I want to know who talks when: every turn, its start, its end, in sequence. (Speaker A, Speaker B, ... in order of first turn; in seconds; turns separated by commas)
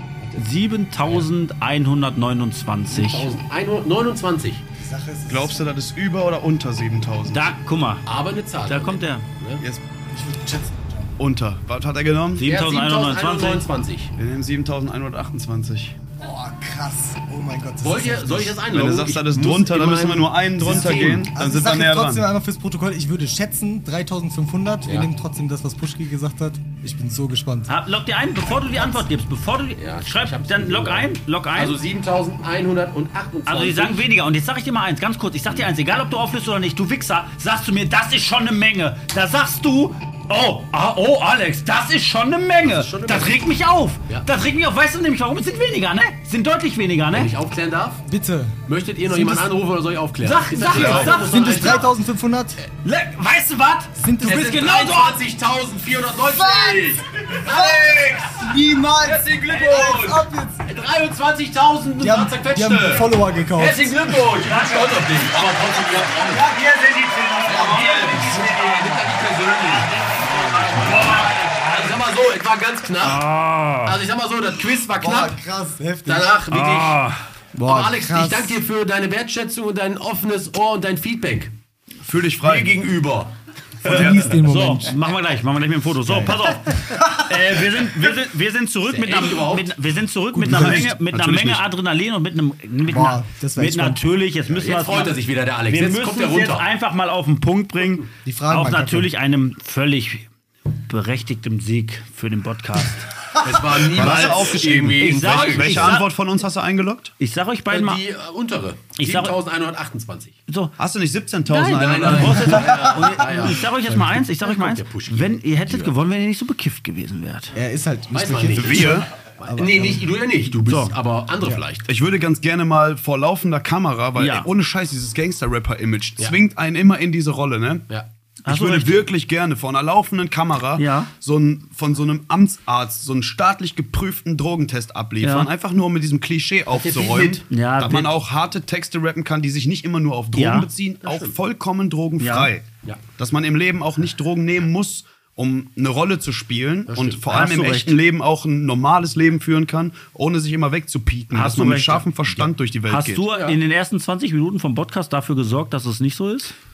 Speaker A: 0.4-3.3, Speaker B: 2.9-4.6, Speaker C: 4.8-5.7, Speaker D: 5.3-7.5, Speaker A: 7.3-8.1, Speaker B: 8.1-9.6, Speaker A: 8.7-9.3, Speaker C: 10.1-11.2, Speaker D: 11.2-12.5, Speaker A: 12.4-13.7, Speaker B: 12.4-14.1, Speaker D: 14.2-16.0, Speaker C: 16.2-18.7, Speaker B: 17.8-21.3, Speaker D: 18.7-22.2, Speaker C: 20.6-27.7, Speaker A: 27.7-31.8, Speaker B: 28.5-29.1, Speaker B: 29.8-34.1, Speaker A: 33.5-47.3, Speaker B: 42.6-43.4, Speaker B: 47.1-48.0, Speaker C: 48.0-49.5, Speaker B: 48.7-51.9, Speaker A: 50.2-51.8, Speaker C: 50.7-52.6, Speaker D: 50.8-51.1, Speaker A: 52.8-55.2, Speaker C: 54.0-54.7, Speaker B: 54.2-66.5, Speaker C: 56.2-60.7, Speaker C: 62.0-64.7, Speaker A: 64.5-64.9, Speaker C: 65.9-69.1, Speaker A: 67.4-68.5, Speaker B: 67.4-73.2, Speaker A: 69.8-71.8, Speaker A: 73.0-74.0, Speaker B: 73.8-75.4, Speaker C: 75.0-76.4, Speaker B: 76.1-77.0, Speaker A: 76.5-77.2, Speaker C: 77.5-78.6, Speaker B: 77.6-81.5, Speaker D: 82.0-83.1, Speaker B: 82.4-83.3, Speaker C: 83.8-85.0, Speaker A: 83.9-95.2, Speaker D: 83.9-84.3, Speaker C: 86.1-87.3, Speaker B: 88.9-89.8, Speaker C: 90.3-91.0, Speaker D: 90.6-91.7, Speaker C: 92.9-94.0, Speaker B: 94.5-96.7, Speaker A: 95.7-103.1, Speaker C: 98.2-99.1, Speaker B: 103.4-106.0, Speaker D: 103.8-107.1, Speaker A: 105.0-106.1, Speaker A: 107.2-108.0, Speaker B: 107.7-110.4, Speaker A: 109.0-109.3, Speaker A: 110.5-110.7, Speaker D: 110.8-112.6, Speaker A: 111.5-117.6, Speaker B: 111.6-115.9, Speaker C: 112.5-113.4, Speaker C: 117.5-120.0, Speaker B: 118.1-121.9, Speaker D: 118.5-119.1, Speaker A: 120.7-121.0, Speaker D: 121.9-127.9, Speaker A: 124.2-124.5, Speaker A: 128.5-129.0, Speaker D: 128.5-153.3, Speaker A: 130.8-131.1, Speaker A: 135.2-135.5, Speaker B: 136.7-137.4, Speaker A: 137.5-138.1, Speaker A: 140.3-140.7, Speaker B: 141.0-141.4, Speaker A: 142.2-142.5, Speaker B: 146.9-147.2, Speaker A: 147.3-148.0, Speaker A: 151.3-152.1, Speaker A: 152.9-156.5, Speaker B: 153.3-153.6